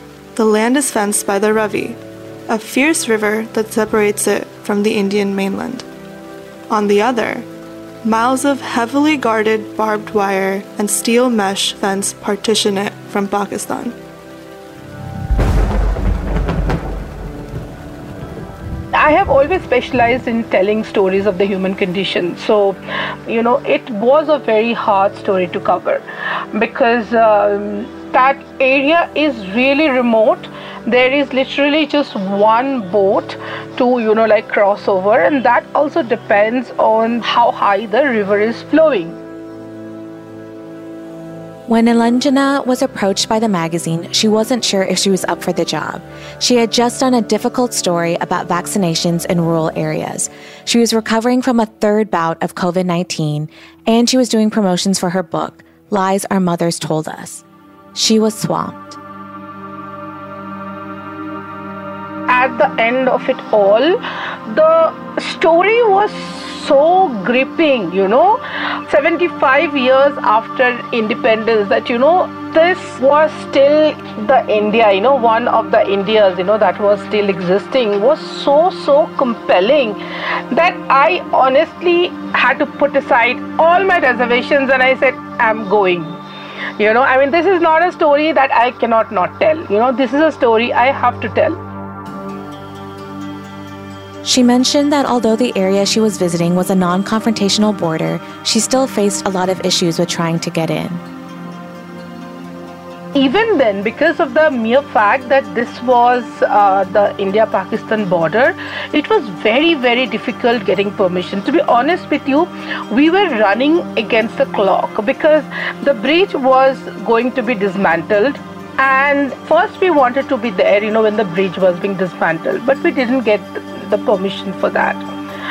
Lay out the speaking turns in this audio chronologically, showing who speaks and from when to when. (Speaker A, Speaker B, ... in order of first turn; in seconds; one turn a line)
Speaker A: 0.3-5.9
Speaker A: 6.7-7.5
Speaker A: 8.0-13.9
Speaker B: 18.9-39.2
Speaker C: 41.7-57.4
Speaker C: 57.9-59.0
Speaker B: 62.3-80.0
Speaker B: 80.5-86.2
Speaker B: 86.8-91.6
Speaker C: 94.2-101.0
Speaker B: 103.1-125.0